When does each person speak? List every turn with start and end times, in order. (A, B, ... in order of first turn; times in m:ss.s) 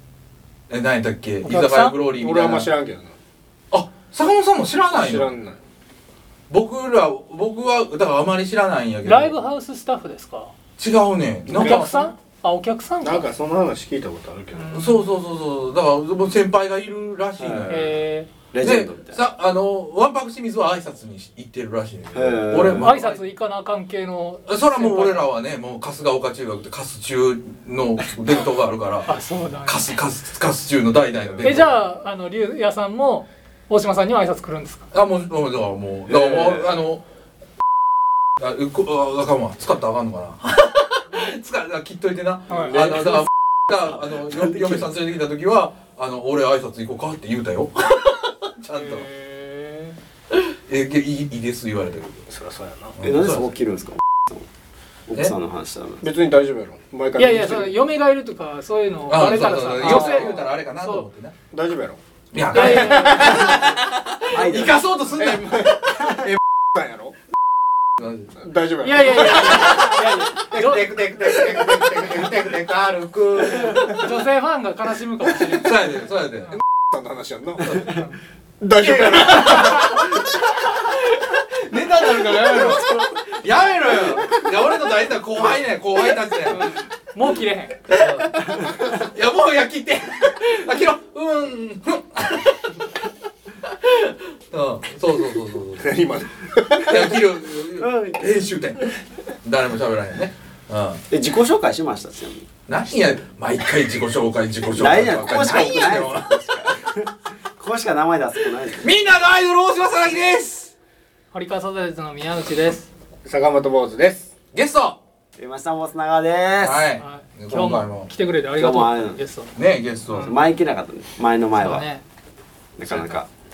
0:00.7-0:02.7 A
0:01.4-0:02.0 B
0:02.2-0:03.2 C
0:03.7-0:05.3 A
0:04.9-0:05.6 C
0:06.5-0:09.4 A
0:09.0-0:10.5 B
0:10.8-0:12.1 A
0:11.5-0:11.9 C
0:11.5-0:13.3 B
0:13.0-0:14.8 C
0:14.5-0:15.1 B
0:14.7-0:18.0 A
0:17.4-0:17.9 D
0:17.7-0:18.3 B
0:18.5-0:19.2 D
0:18.6-0:23.2 A
0:22.1-0:23.0 D
0:22.8-0:25.2 B
0:24.5-0:31.8 A
0:29.1-0:29.9 B
0:31.3-0:31.6 D
0:31.4-0:34.9 B
0:34.9-0:37.0 A
0:36.1-0:36.7 D
0:38.4-0:49.1 A
0:42.5-0:42.8 B
0:42.6-0:43.0 C
0:44.2-0:44.8 D
0:48.7-0:50.0 B
0:50.7-0:52.2 A
0:52.3-0:53.0 C
0:53.0-0:53.5 A
0:53.0-0:54.5 D
0:55.1-0:56.0 D
0:56.0-0:57.8 C
0:57.2-1:01.1 B
0:59.1-1:01.3 A
0:59.8-1:00.2 C
1:01.5-1:02.0 C
1:02.3-1:06.0 A
1:02.5-1:03.5 B
1:02.5-1:03.6 C
1:03.1-1:03.6 D
1:04.3-1:04.8 D
1:05.2-1:07.2 C
1:08.0-1:08.3 A
1:08.4-1:10.2 C
1:08.8-1:10.9 B
1:09.4-1:14.0 A
1:11.0-1:12.4 C
1:13.7-1:15.8 B
1:15.4-1:16.6 A
1:16.7-1:17.8 C
1:17.7-1:18.0 A
1:18.6-1:20.0 C
1:18.8-1:26.7 A
1:26.5-1:27.8 B
1:27.9-1:32.8 A
1:33.7-1:35.9 A
1:35.8-1:37.1 C
1:36.8-1:41.0 A
1:37.8-1:38.3 D
1:41.1-1:42.5 D
1:42.7-1:46.7 A
1:44.7-1:48.9 D
1:48.8-1:50.7 A
1:51.3-1:52.9 B
1:53.2-1:54.3 C
1:54.5-1:55.0 A
1:55.4-1:56.8 D
1:56.6-1:58.1 A
1:57.0-1:59.5 B
1:58.6-1:59.2 D
1:59.6-2:00.4 A
2:00.1-2:00.4 B
2:00.2-2:01.9 D
2:01.6-2:02.0 B
2:02.8-2:03.3 D